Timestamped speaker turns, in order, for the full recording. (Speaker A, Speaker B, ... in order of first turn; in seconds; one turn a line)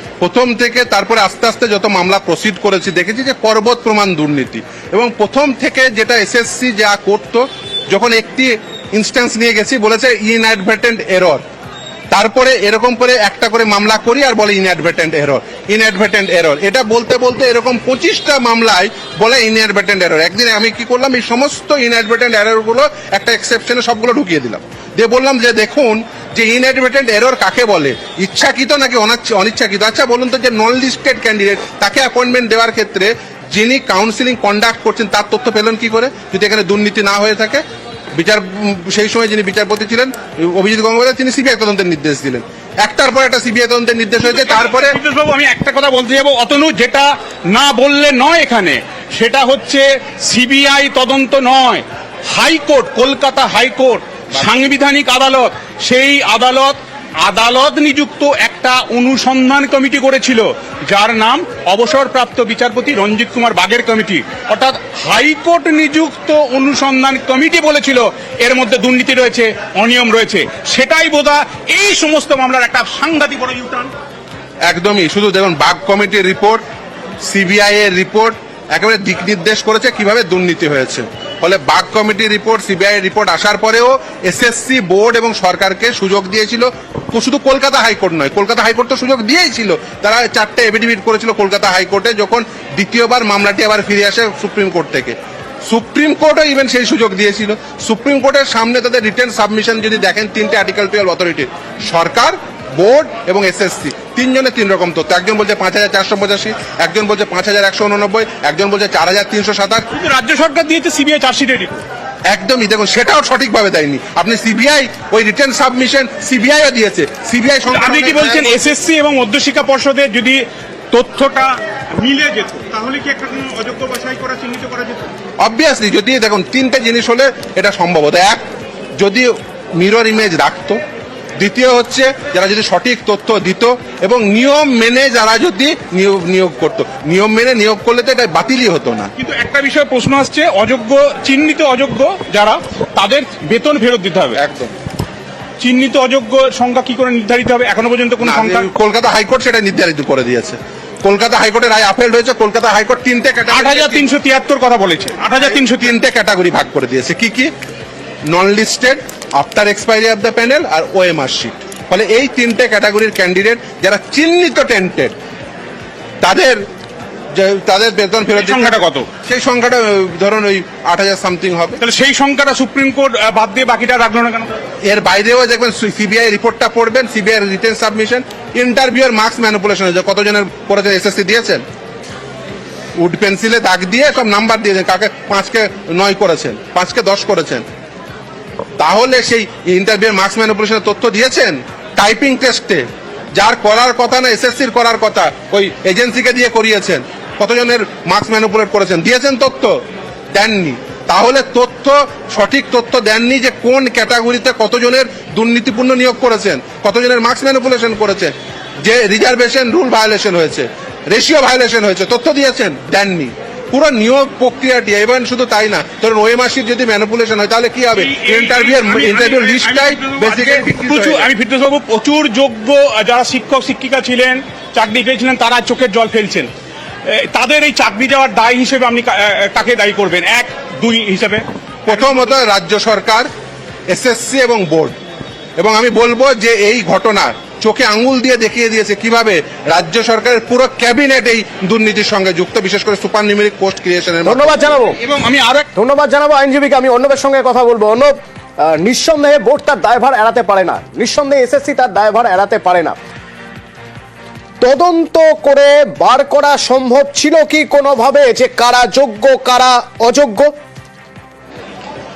Speaker A: 0.2-11.4
Speaker A: 12.1-37.6
Speaker A: 38.1-45.0
Speaker B: 44.2-73.9
Speaker A: 74.7-76.6
Speaker A: 77.2-109.9
Speaker B: 109.9-111.8
Speaker A: 112.3-118.7
Speaker B: 117.7-125.1
Speaker A: 125.4-128.4
Speaker A: 129.0-130.8
Speaker A: 131.4-139.1
Speaker B: 139.2-144.4
Speaker A: 144.4-144.7
Speaker B: 145.6-148.7
Speaker A: 148.2-154.1
Speaker B: 153.5-155.9
Speaker A: 155.3-157.5
Speaker A: 158.3-165.2
Speaker A: 166.2-166.7
Speaker A: 167.3-171.8
Speaker B: 168.3-169.1
Speaker B: 171.8-174.6
Speaker A: 174.8-181.6
Speaker A: 183.0-187.7
Speaker A: 188.8-199.8
Speaker A: 200.3-221.3
Speaker B: 217.9-226.5
Speaker B: 227.1-232.4
Speaker A: 231.9-233.3
Speaker A: 233.9-235.0
Speaker A: 235.6-244.8
Speaker C: 244.2-245.0
Speaker B: 245.0-245.7
Speaker C: 245.8-248.1
Speaker C: 248.7-253.0
Speaker C: 254.6-260.5